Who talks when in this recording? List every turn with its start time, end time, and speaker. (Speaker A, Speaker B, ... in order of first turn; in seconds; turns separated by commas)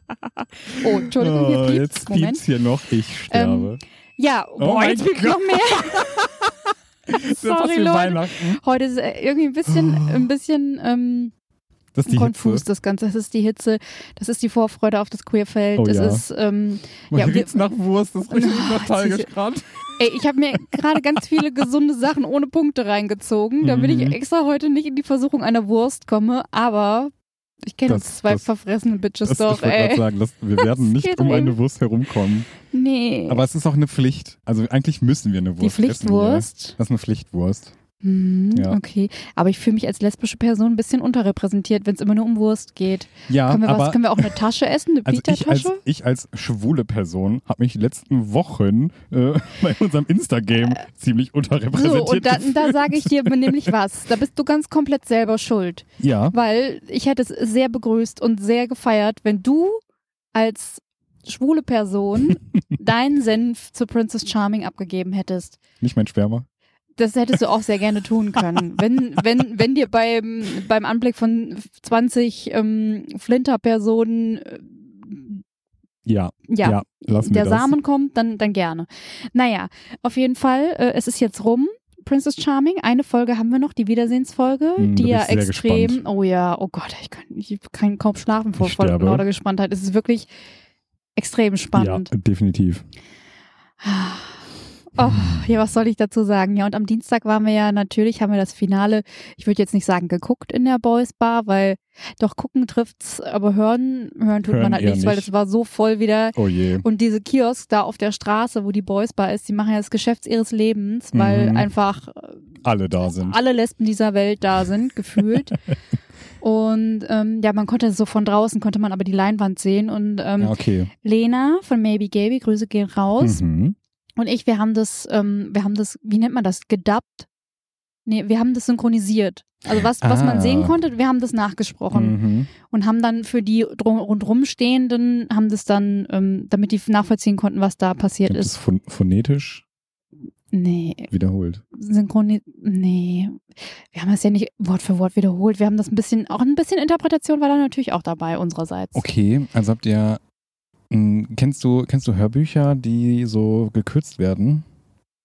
Speaker A: 0.7-3.8, Speaker B: 0.8-2.4, Speaker B: 3.3-6.2, Speaker A: 4.6-6.4, Speaker A: 7.1-8.6, Speaker B: 7.2-11.3, Speaker A: 9.7-10.3, Speaker A: 11.9-12.7, Speaker B: 12.1-17.6, Speaker A: 15.8-16.2, Speaker A: 17.1-19.8, Speaker B: 18.3-19.3, Speaker B: 20.0-27.1, Speaker A: 23.6-24.2, Speaker B: 27.7-31.6, Speaker A: 27.9-28.4, Speaker A: 29.2-32.5, Speaker B: 32.7-33.5, Speaker A: 33.3-37.8, Speaker B: 35.6-36.8, Speaker B: 38.0-45.8, Speaker A: 43.3-44.4, Speaker A: 45.1-53.7, Speaker B: 51.7-59.8, Speaker A: 56.0-56.4, Speaker B: 60.3-65.6, Speaker A: 65.8-66.5, Speaker B: 67.0-75.4, Speaker A: 76.1-77.8, Speaker B: 76.5-90.3, Speaker A: 84.8-86.0, Speaker A: 88.6-89.3, Speaker B: 91.2-92.1, Speaker A: 91.8-92.8, Speaker B: 93.8-112.5, Speaker A: 104.5-105.3, Speaker A: 106.3-106.9, Speaker A: 111.1-111.7, Speaker A: 112.6-113.4, Speaker B: 113.0-115.6, Speaker B: 116.4-123.4, Speaker A: 120.4-120.9, Speaker A: 123.2-123.8, Speaker B: 124.2-127.3, Speaker B: 128.1-138.5, Speaker A: 129.8-130.8, Speaker A: 131.9-132.5, Speaker A: 138.3-139.6, Speaker B: 140.5-141.1, Speaker A: 141.1-141.6, Speaker B: 141.7-149.1, Speaker A: 148.9-150.2, Speaker A: 150.9-154.7